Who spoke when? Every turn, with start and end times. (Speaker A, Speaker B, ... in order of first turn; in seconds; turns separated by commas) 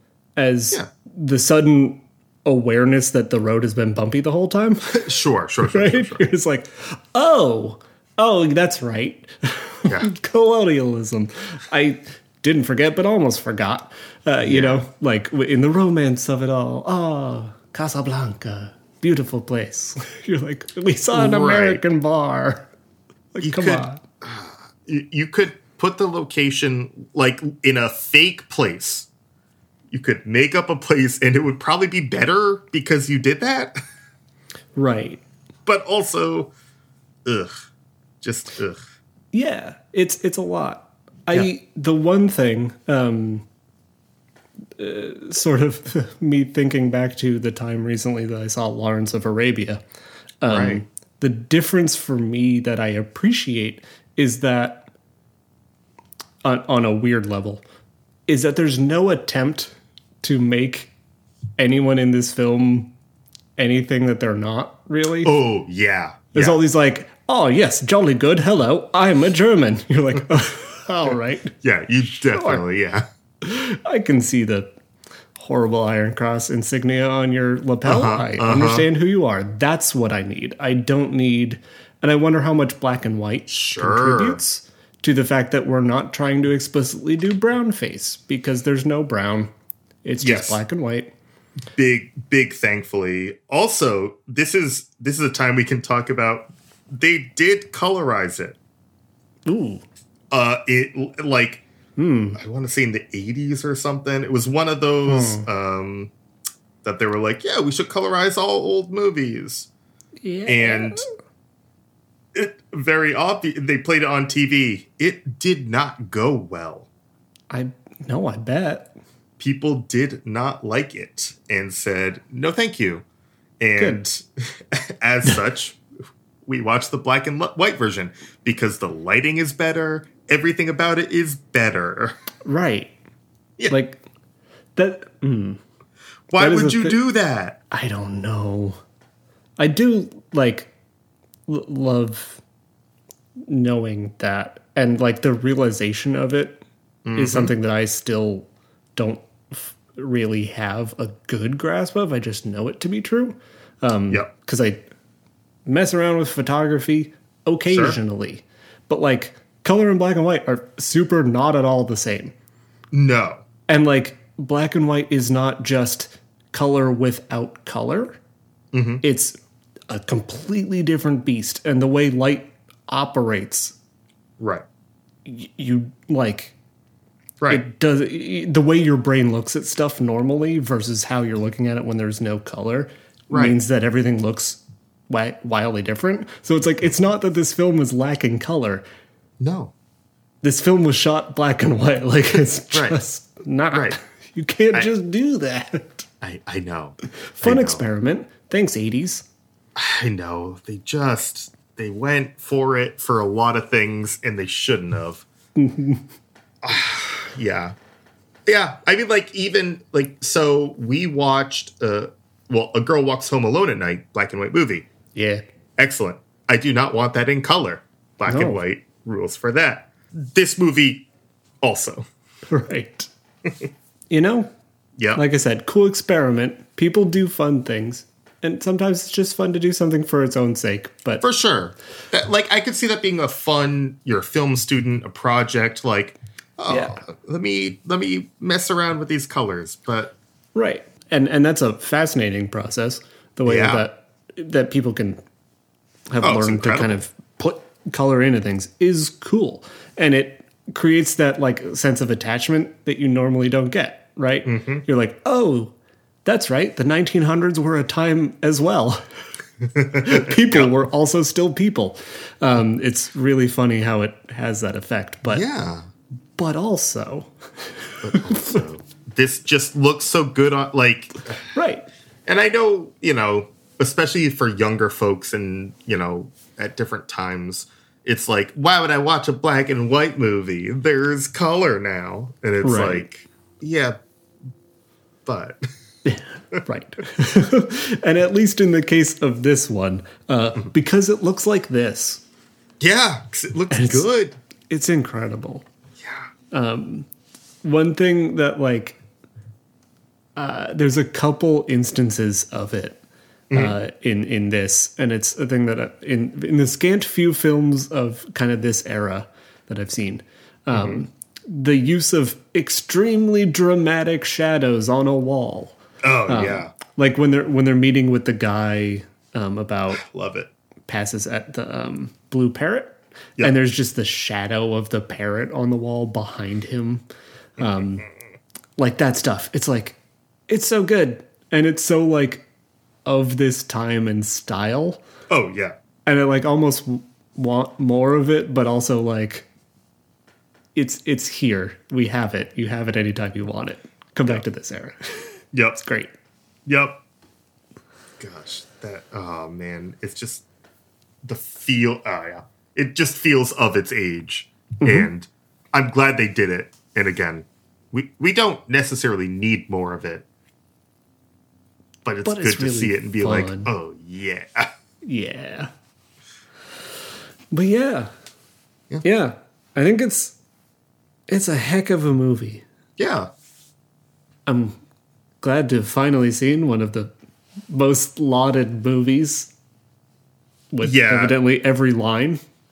Speaker A: 0.3-5.0, Speaker B: 4.9-6.3, Speaker A: 5.6-22.7, Speaker B: 14.4-14.8, Speaker B: 21.1-21.8, Speaker A: 23.3-24.0, Speaker B: 23.4-29.1, Speaker B: 29.9-33.8, Speaker A: 34.8-35.2, Speaker B: 35.6-36.5, Speaker B: 37.2-37.6, Speaker B: 38.2-38.8, Speaker A: 39.3-43.5, Speaker A: 44.8-49.8, Speaker A: 50.4-54.9, Speaker B: 50.5-50.8, Speaker A: 56.4-57.6, Speaker A: 58.3-60.9, Speaker A: 61.6-62.9, Speaker A: 63.6-65.3, Speaker B: 65.2-66.6, Speaker A: 66.3-71.5, Speaker B: 71.6-73.1, Speaker A: 72.3-72.6, Speaker A: 73.4-74.7, Speaker A: 75.4-89.5, Speaker B: 77.8-78.8, Speaker B: 83.5-84.4, Speaker A: 90.0-91.1, Speaker B: 90.2-90.6, Speaker B: 91.8-98.6, Speaker A: 99.5-99.8, Speaker B: 100.3-101.6, Speaker A: 102.0-102.4, Speaker B: 102.3-106.1, Speaker A: 105.1-105.5, Speaker B: 106.8-109.7, Speaker A: 110.2-111.1, Speaker B: 110.5-111.0, Speaker B: 112.3-116.9, Speaker A: 117.5-118.9, Speaker B: 119.4-123.0, Speaker B: 123.6-125.8, Speaker B: 126.5-132.1, Speaker A: 132.4-132.9, Speaker A: 133.7-134.0, Speaker A: 134.8-135.6, Speaker B: 136.3-137.6, Speaker A: 136.3-137.0, Speaker A: 137.7-138.8, Speaker A: 139.6-140.7, Speaker A: 141.5-142.4, Speaker A: 143.5-146.6, Speaker B: 147.0-147.5, Speaker A: 147.1-154.9, Speaker A: 155.7-162.3, Speaker B: 157.7-158.0, Speaker B: 162.9-163.4, Speaker A: 163.7-168.2, Speaker B: 168.7-169.0, Speaker A: 169.0-169.4, Speaker A: 169.9-173.8, Speaker B: 174.4-174.6, Speaker A: 175.2-176.5, Speaker A: 177.5-188.8, Speaker B: 183.3-183.6, Speaker B: 189.4-189.7, Speaker A: 190.4-196.1, Speaker B: 192.7-193.0, Speaker B: 196.2-197.8, Speaker A: 197.3-199.2, Speaker B: 199.8-205.2, Speaker A: 205.6-206.0, Speaker B: 206.6-207.7, Speaker B: 208.4-214.9, Speaker A: 215.1-215.4, Speaker B: 215.8-221.1, Speaker A: 218.2-218.6, Speaker B: 221.6-222.1, Speaker A: 222.5-223.1, Speaker A: 224.1-224.5, Speaker A: 225.1-231.2, Speaker B: 231.2-240.1, Speaker A: 236.7-237.0, Speaker A: 240.5-245.2, Speaker B: 243.4-243.8, Speaker A: 246.1-255.7, Speaker B: 246.2-246.9, Speaker B: 254.4-254.8, Speaker A: 256.2-259.0, Speaker B: 259.7-260.7, Speaker A: 259.9-265.4, Speaker B: 265.3-265.9, Speaker A: 266.4-267.3, Speaker B: 268.0-271.4, Speaker A: 268.1-268.6, Speaker A: 271.5-271.9, Speaker B: 272.2-284.0, Speaker A: 282.6-283.1, Speaker B: 285.2-285.7, Speaker A: 286.0-292.2, Speaker B: 292.8-294.4, Speaker A: 293.7-294.1, Speaker A: 294.7-295.6, Speaker B: 296.0-296.3, Speaker A: 296.5-297.1, Speaker A: 297.6-299.0, Speaker A: 300.4-320.0, Speaker B: 303.5-303.8, Speaker B: 316.0-316.7, Speaker B: 319.9-320.5, Speaker A: 320.9-327.0, Speaker A: 327.6-328.1, Speaker A: 328.8-330.0, Speaker A: 330.5-332.4, Speaker A: 333.1-335.0, Speaker B: 335.3-335.8, Speaker A: 336.1-339.5, Speaker A: 340.7-346.1, Speaker B: 345.5-345.8, Speaker B: 346.6-347.0, Speaker B: 348.2-350.4, Speaker B: 351.2-360.2, Speaker A: 354.8-355.1, Speaker B: 362.0-364.7, Speaker A: 362.2-363.7, Speaker A: 365.0-365.7, Speaker A: 367.5-368.1, Speaker A: 369.0-370.4, Speaker A: 371.3-372.6, Speaker B: 373.0-373.3, Speaker A: 374.5-374.8, Speaker A: 375.4-377.1, Speaker A: 377.7-379.5, Speaker A: 380.7-382.4, Speaker B: 380.8-381.3